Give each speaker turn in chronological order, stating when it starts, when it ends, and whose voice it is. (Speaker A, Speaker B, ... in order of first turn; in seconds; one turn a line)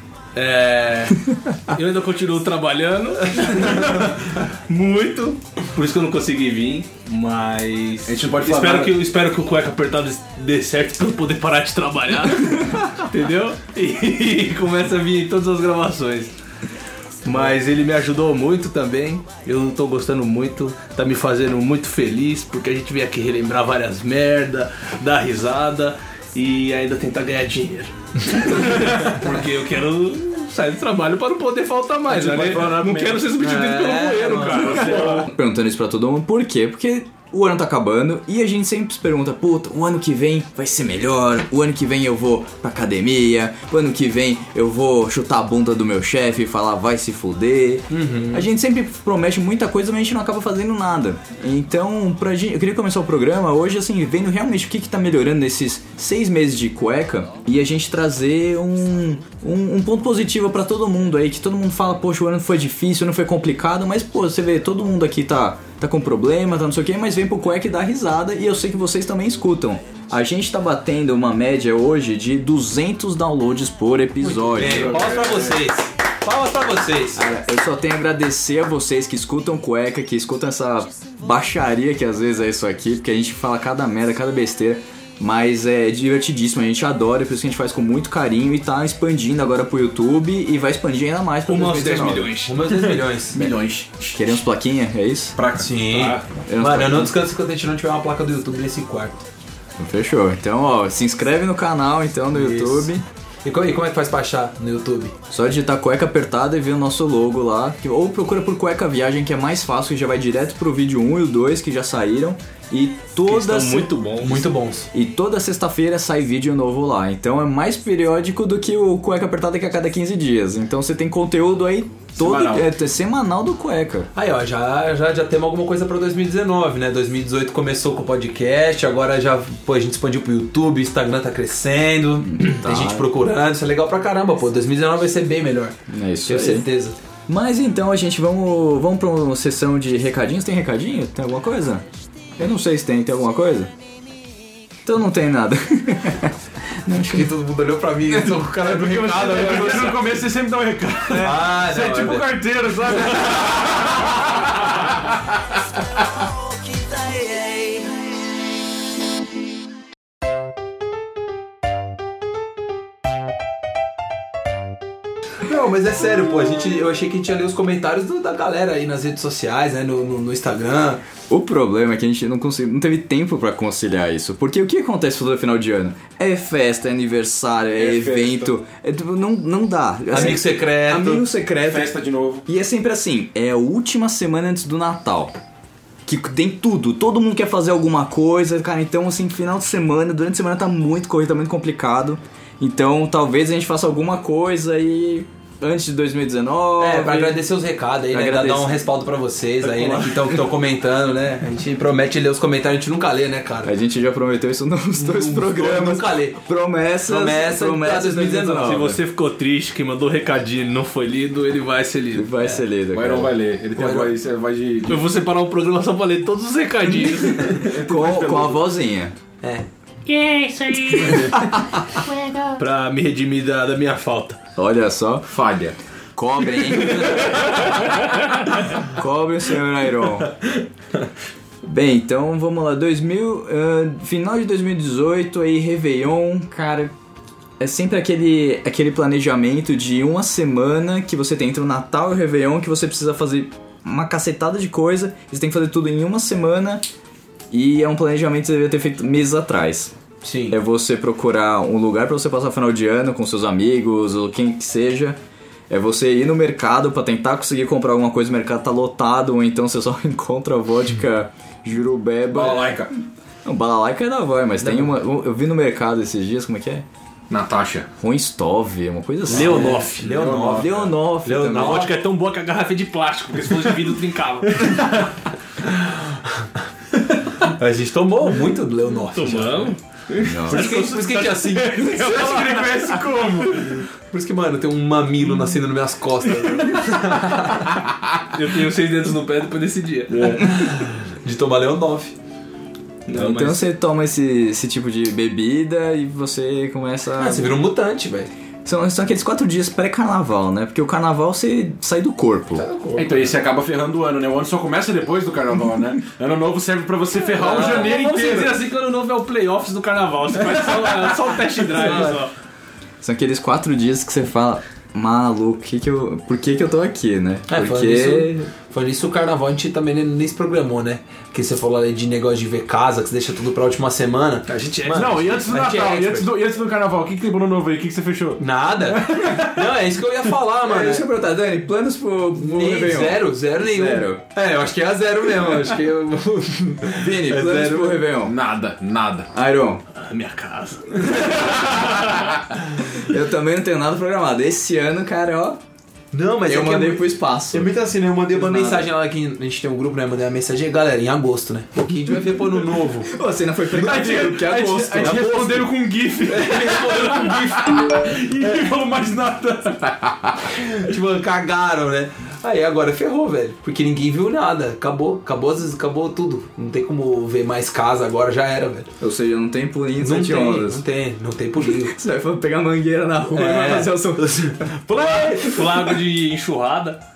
Speaker A: 0.3-16.3
Speaker B: 8.1-8.9
Speaker A: 17.2-35.3
Speaker B: 32.1-35.3
Speaker C: 33.4-35.0
Speaker D: 34.6-75.4
Speaker C: 47.9-48.5
Speaker C: 74.2-77.2
Speaker B: 74.6-75.5
Speaker D: 77.1-92.4
Speaker A: 91.5-92.9
Speaker C: 92.5-93.4
Speaker B: 92.7-94.2
Speaker D: 93.3-95.4
Speaker B: 95.3-95.7
Speaker C: 95.5-99.2
Speaker A: 95.9-96.2
Speaker D: 96.5-97.1
Speaker D: 99.8-103.0
Speaker C: 102.3-102.9
Speaker C: 103.4-105.1
Speaker D: 105.3-113.9
Speaker A: 113.3-114.5
Speaker C: 114.2-114.9
Speaker D: 114.9-124.1
Speaker B: 122.2-122.7
Speaker C: 124.1-137.0
Speaker D: 132.2-133.1
Speaker D: 135.9-136.7
Speaker D: 137.3-141.8
Speaker D: 142.4-143.7
Speaker D: 144.8-147.3
Speaker C: 147.1-150.2
Speaker B: 148.5-155.1
Speaker C: 151.1-152.3
Speaker C: 165.4-171.0
Speaker D: 171.3-185.3
Speaker B: 177.8-178.5
Speaker C: 180.1-181.2
Speaker B: 181.5-182.4
Speaker D: 186.1-197.4
Speaker C: 196.8-203.7
Speaker D: 198.1-198.8
Speaker A: 199.6-200.4
Speaker D: 203.6-209.0
Speaker C: 205.0-206.4
Speaker C: 207.0-208.8
Speaker A: 208.6-212.5
Speaker D: 212.1-213.4
Speaker B: 212.9-215.1
Speaker C: 213.8-214.1
Speaker A: 214.9-217.6
Speaker C: 217.4-217.7
Speaker B: 217.4-218.6
Speaker D: 217.6-219.1
Speaker E: 220.1-222.6
Speaker A: 222.6-224.4
Speaker D: 224.6-225.3
Speaker B: 225.3-225.8
Speaker D: 226.2-227.4
Speaker A: 226.9-227.2
Speaker D: 228.8-230.3
Speaker D: 231.6-236.9
Speaker D: 237.6-246.8
Speaker D: 247.5-249.9
Speaker C: 250.2-250.6
Speaker D: 250.5-255.2
Speaker D: 255.7-262.9
Speaker B: 262.3-262.9
Speaker C: 262.4-262.7
Speaker D: 263.4-266.8
Speaker C: 264.6-264.9
Speaker B: 267.3-267.9
Speaker D: 268.0-271.9
Speaker A: 269.3-270.1
Speaker C: 269.3-271.9
Speaker B: 269.4-270.9
Speaker A: 271.4-274.7
Speaker B: 274.6-275.1
Speaker C: 275.9-276.5
Speaker C: 277.4-279.7
Speaker A: 279.1-283.2
Speaker D: 280.2-280.8
Speaker C: 280.4-282.6
Speaker B: 281.9-283.8
Speaker C: 284.1-287.7
Speaker A: 288.3-290.4
Speaker B: 290.1-290.4
Speaker C: 290.2-292.1
Speaker A: 293.1-293.7
Speaker D: 293.1-297.6
Speaker C: 297.1-298.3
Speaker D: 298.6-302.7
Speaker C: 302.5-303.3
Speaker B: 302.9-308.6
Speaker C: 307.3-308.0
Speaker A: 307.3-312.3
Speaker C: 311.7-312.2
Speaker D: 313.0-318.3
Speaker C: 317.5-326.3
Speaker A: 324.5-325.3
Speaker B: 324.9-329.7
Speaker C: 328.4-331.1
Speaker D: 330.6-334.2
Speaker C: 332.4-338.0
Speaker D: 336.9-338.3
Speaker B: 338.2-339.3
Speaker D: 339.3-339.8
Speaker A: 339.9-342.1
Speaker D: 342.8-345.6
Speaker C: 346.1-353.1
Speaker D: 346.5-348.9
Speaker D: 353.0-355.4
Speaker B: 353.7-360.6
Speaker C: 355.0-358.6
Speaker C: 360.8-368.9
Speaker D: 369.0-370.8
Speaker C: 370.0-371.9
Speaker D: 371.6-374.7
Speaker C: 373.3-375.7
Speaker A: 375.4-377.0